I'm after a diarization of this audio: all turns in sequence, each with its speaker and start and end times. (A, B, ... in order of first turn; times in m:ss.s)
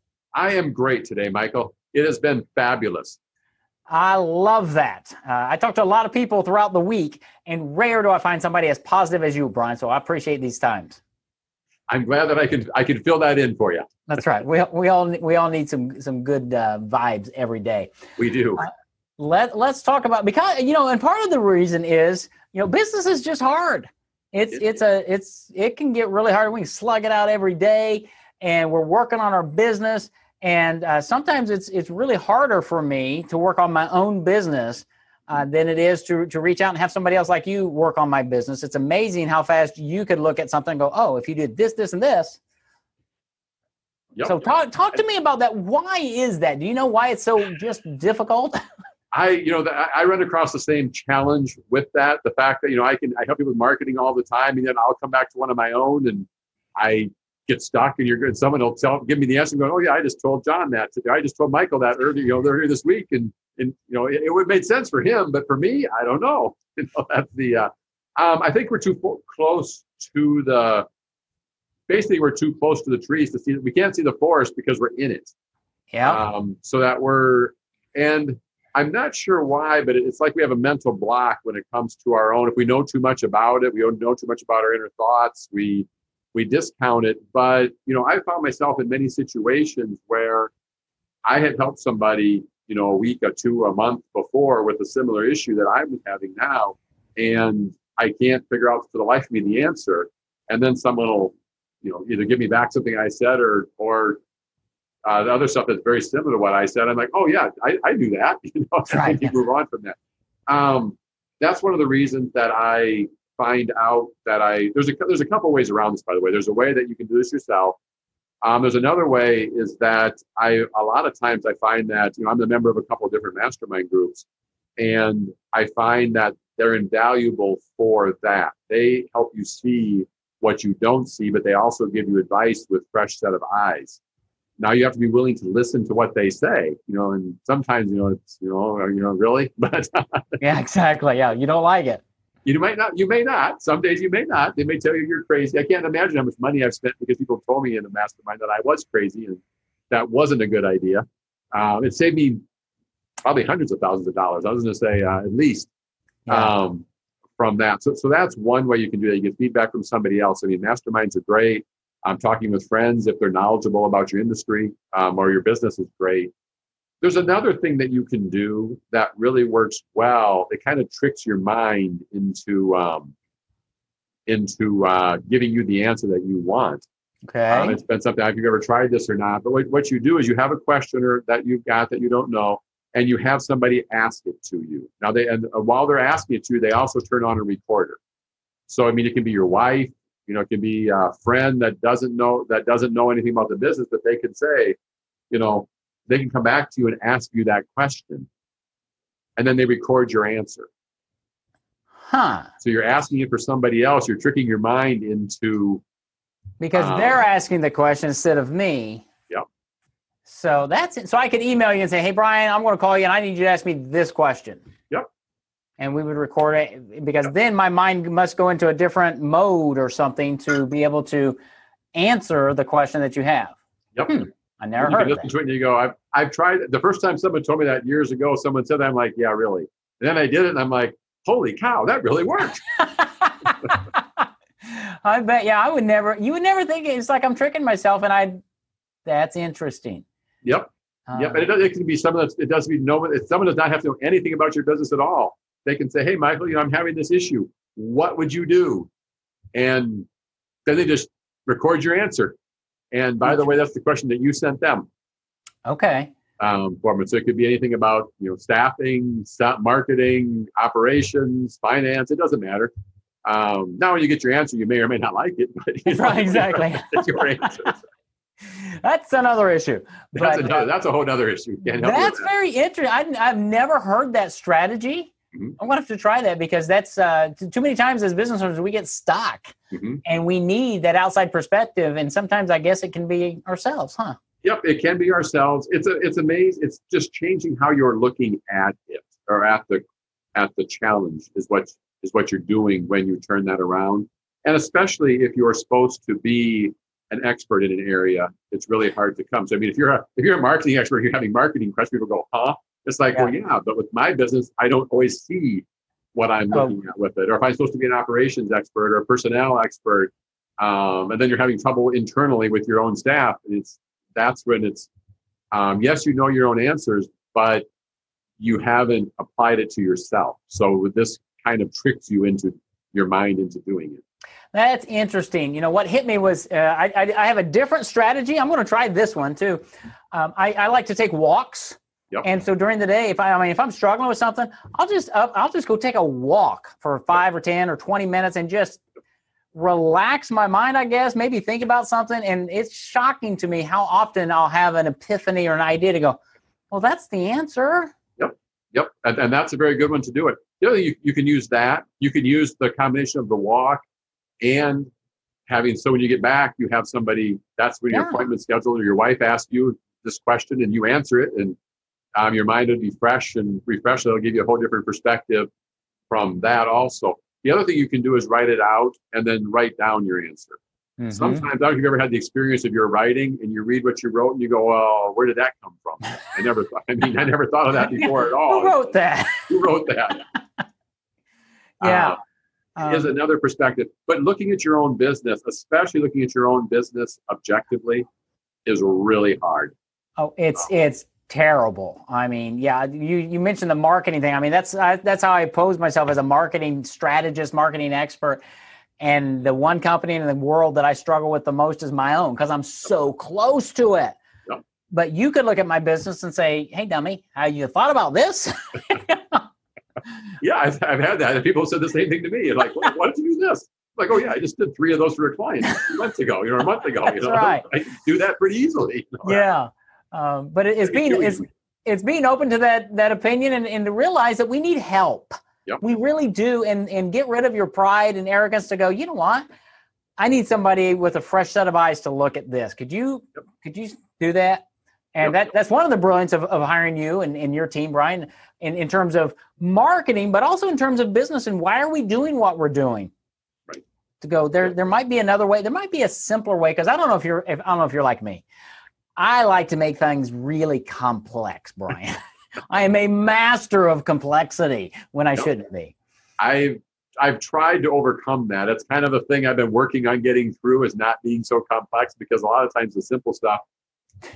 0:00.3-0:03.2 A
0:03.9-0:11.0 B
0:11.9-0:13.8 A
0:14.1-0:17.9 B
0:18.2-0:18.6 A
0:19.2-0:42.4 B
0:44.1-0:44.5 A
0:44.2-0:48.6 B
0:49.1-1:10.8 A
1:11.9-1:15.3 A
1:15.9-1:16.2 B
1:16.0-1:30.5 A
1:31.2-1:44.2 A
1:45.0-1:50.0 A
1:48.9-1:49.3 B
1:50.5-1:57.8 A
1:58.4-2:04.2 A
2:04.8-2:14.0 A
2:14.6-2:20.4 A
2:20.4-2:22.0 B
2:22.4-2:32.4 A
2:33.2-2:35.7 A
2:36.3-2:36.6 B
2:36.3-2:36.8 A
2:37.4-2:46.3 A
2:47.0-2:53.1 A
2:54.3-2:56.8 A
2:57.2-2:57.8 B
2:57.5-3:08.0 A
3:08.7-3:14.8 A
3:15.3-3:18.3 A
3:19.4-3:20.7 A
3:22.1-3:22.5 B
3:22.6-3:25.8 A
3:26.6-3:29.0 B
3:26.7-3:27.2 A
3:30.3-3:34.6 B
3:35.8-3:41.4 B
3:41.9-3:45.3 B
3:44.8-3:52.6 A
3:52.9-3:53.8 B
3:54.6-3:58.4 B
3:59.0-4:00.0 B
4:00.4-4:08.9 A
4:01.1-4:01.5 B
4:09.5-4:10.1 A
4:10.6-4:12.4 A
4:12.9-4:14.9 A
4:15.6-4:16.1 B
4:16.4-4:22.7 A
4:23.2-4:27.8 A
4:25.9-4:27.7 B
4:28.5-4:30.7 B
4:30.2-4:32.3 A
4:31.8-4:44.2 B
4:39.7-4:40.0 A
4:44.4-5:05.6 A
5:06.1-5:14.9 A
5:15.5-5:17.6 A
5:18.4-5:24.0 A
5:24.5-5:38.8 B
5:39.5-5:46.2 B
5:46.7-5:47.9 B
5:48.2-5:53.8 A
5:54.4-5:54.9 A
5:55.5-6:01.6 A
5:57.9-5:58.2 B
6:02.2-6:05.5 A
6:06.1-6:10.6 A
6:11.0-6:11.4 B
6:11.1-6:19.0 A
6:18.0-6:19.6 B
6:19.5-6:20.2 A
6:21.8-6:22.2 B
6:21.8-6:22.2 A
6:22.8-6:23.1 B
6:22.8-6:28.0 A
6:28.6-6:29.7 A
6:30.2-6:38.4 B
6:39.0-6:44.2 B
6:44.9-6:49.4 B
6:50.4-6:59.4 A
6:57.0-6:57.6 B
6:59.2-7:09.5 B
7:00.8-7:01.4 A
7:10.2-7:14.6 B
7:15.1-7:23.1 B
7:24.2-7:28.4 B
7:29.2-7:32.2 B
7:32.7-7:35.9 B
7:36.4-7:43.6 A